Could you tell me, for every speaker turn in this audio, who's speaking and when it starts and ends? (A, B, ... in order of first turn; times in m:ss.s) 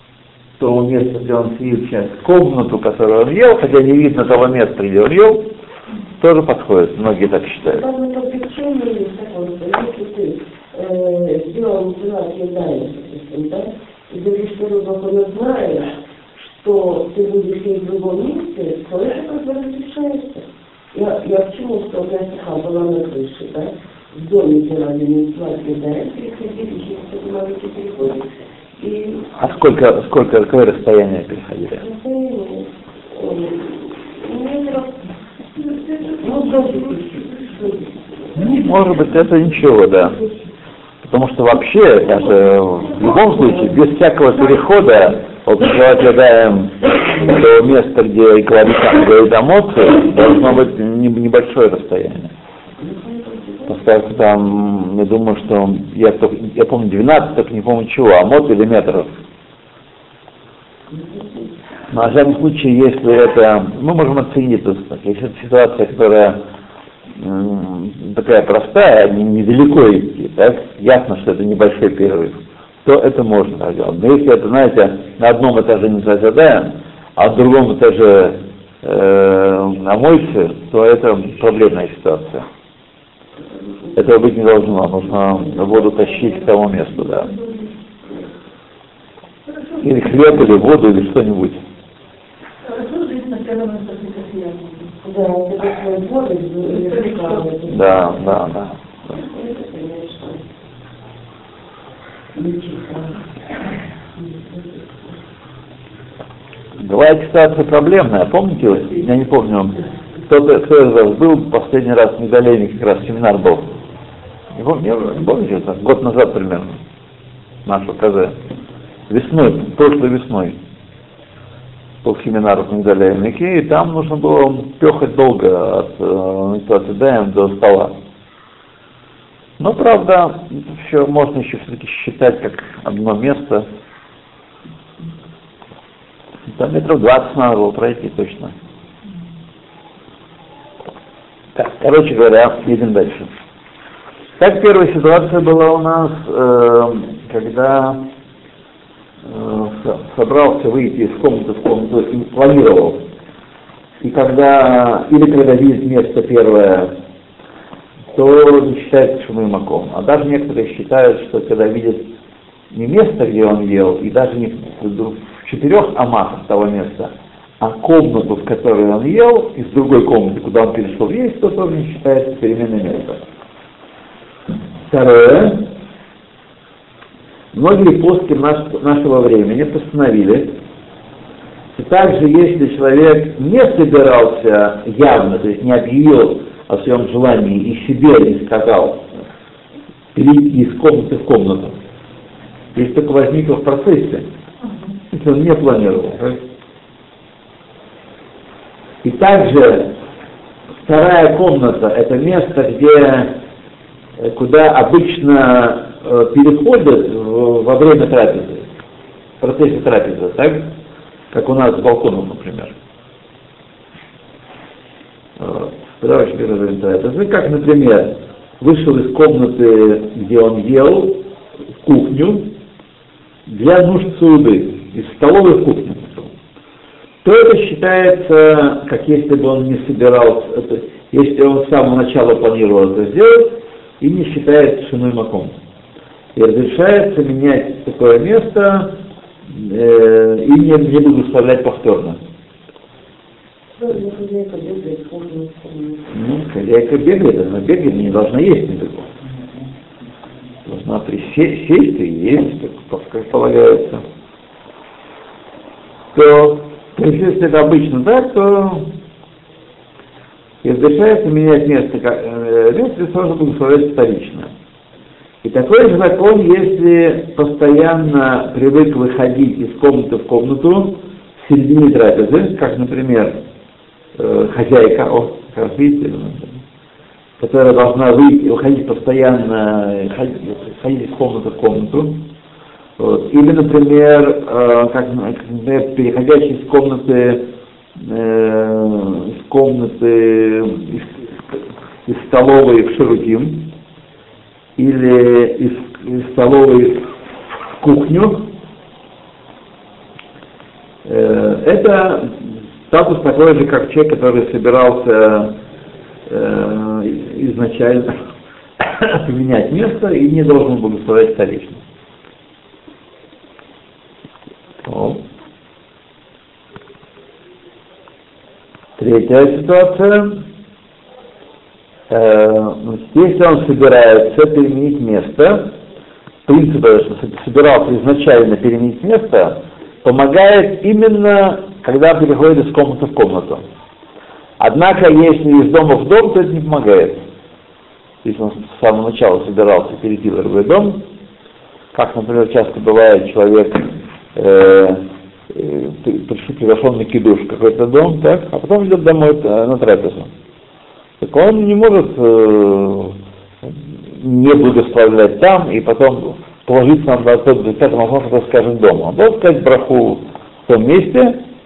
0:00.6-0:05.5 A
0:06.2-0:07.8 A
0:07.6-0:28.2 B
0:28.8-0:29.3 B
0:29.4-0:31.8 A
0:31.8-0:35.0 B
0:35.9-0:37.9 B
0:38.4-0:40.2 A
0:41.0-0:52.3 A
0:52.8-0:53.8 B
0:53.7-0:59.1 A
1:00.9-1:01.5 B
1:01.9-1:06.4 A
1:07.2-1:22.5 A
1:24.0-1:27.3 A
1:27.2-1:28.1 B
1:29.8-1:31.6 A
1:32.6-1:34.9 C
1:35.0-1:38.4 B
1:36.8-1:37.4 C
1:37.7-1:38.8 A
1:39.1-1:40.4 B
1:42.4-1:43.2 B
1:44.2-1:45.1 B
1:46.8-1:53.7 A
1:54.5-1:56.8 A
1:57.7-1:58.4 A
1:59.1-2:00.6 A
2:02.0-2:07.9 A
2:09.6-2:13.7 A
2:16.5-2:18.5 A
2:21.6-2:23.3 A
2:24.4-2:28.1 A
2:29.2-2:33.0 A
2:34.0-2:37.0 A
2:38.1-2:42.1 A
2:42.7-2:53.2 A
2:54.9-2:55.7 A
2:57.5-3:00.6 A
3:01.7-3:09.2 A
3:10.2-3:11.8 A
3:12.8-3:14.3 A
3:15.1-3:16.4 A
3:19.0-3:20.0 A
3:20.8-3:23.4 A
3:24.2-3:28.7 A
3:29.4-3:30.7 A
3:31.3-3:32.8 A
3:35.4-3:41.2 A
3:41.8-3:42.5 A
3:43.5-3:46.3 A
3:47.2-3:55.5 A
3:56.4-4:02.2 A
4:03.8-4:06.1 B
4:06.1-4:09.1 A
4:10.7-4:14.0 A
4:16.1-4:18.9 A
4:20.6-4:24.5 A
4:25.4-4:33.4 A
4:34.2-4:36.5 A
4:37.4-4:42.3 A
4:43.0-4:53.7 A
4:54.8-4:57.1 A
4:57.8-4:58.5 A
5:01.0-5:05.6 A
5:06.3-5:08.2 A
5:08.8-5:11.8 A
5:14.8-5:15.2 A
5:19.0-5:20.4 A
5:22.1-5:25.8 A
5:26.5-5:33.6 A
5:34.6-5:37.2 A
5:38.2-5:41.0 A
5:41.9-5:50.3 A
5:51.2-6:01.4 A